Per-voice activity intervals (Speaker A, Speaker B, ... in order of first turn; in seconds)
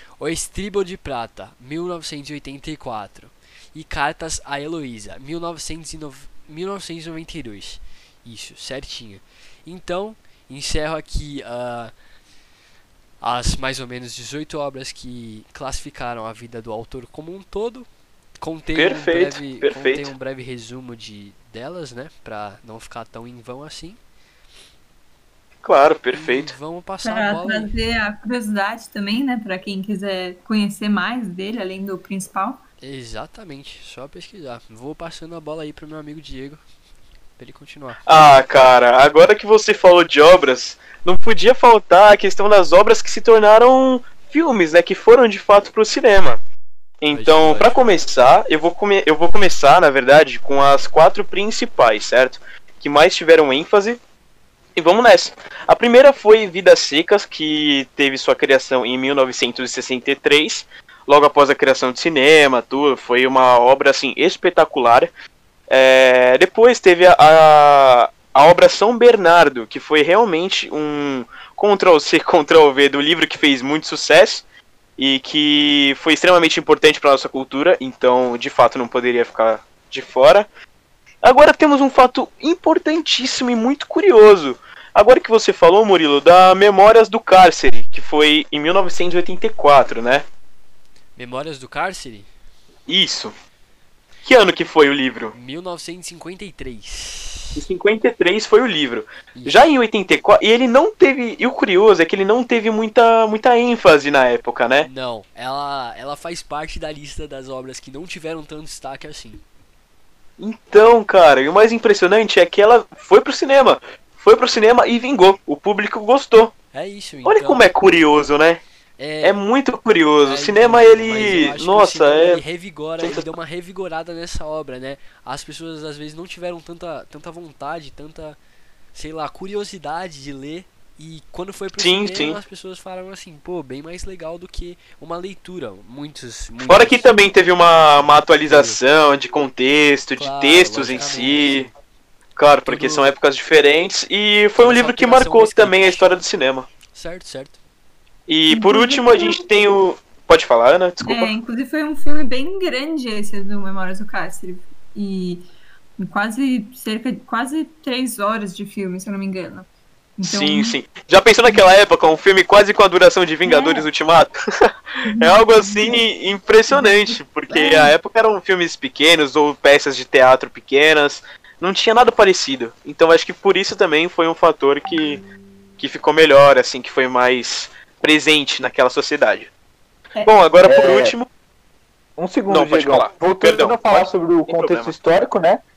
Speaker A: 0.2-11.9, 13.2-17.9, 18.4-24.0, 26.1-27.7, 32.8-36.6, 37.4-38.0, 47.1-47.8, 91.2-92.3, 95.3-97.6, 99.3-99.7, 104.8-109.4, 116.7-117.7, 119.0-119.4, 120.2-128.4, 128.9-137.1, 138.5-138.8, 140.2-141.7, 142.7-143.1, 144.6-146.2, 146.9-147.6
Speaker B: 18.7-20.1, 25.6-26.6, 38.0-46.4, 47.0-54.0, 54.8-65.1, 65.7-74.4, 75.0-80.5, 81.2-90.2, 92.9-93.3, 94.2-95.3, 97.5-104.9, 110.4-116.5, 117.2-118.6, 119.2-122.4, 123.0-123.3, 131.7-132.4, 136.6-141.7, 142.3-146.7, 148.3-151.3, 160.2-164.3, 165.2-175.2, 175.8-179.5, 180.2-181.3, 182.5-184.9
Speaker C: 27.0-32.6, 148.5-149.4, 151.0-160.8, 161.3-161.6, 163.4-163.9, 165.0-166.0, 166.7-167.9
Speaker D: 180.6-181.2, 182.2-185.6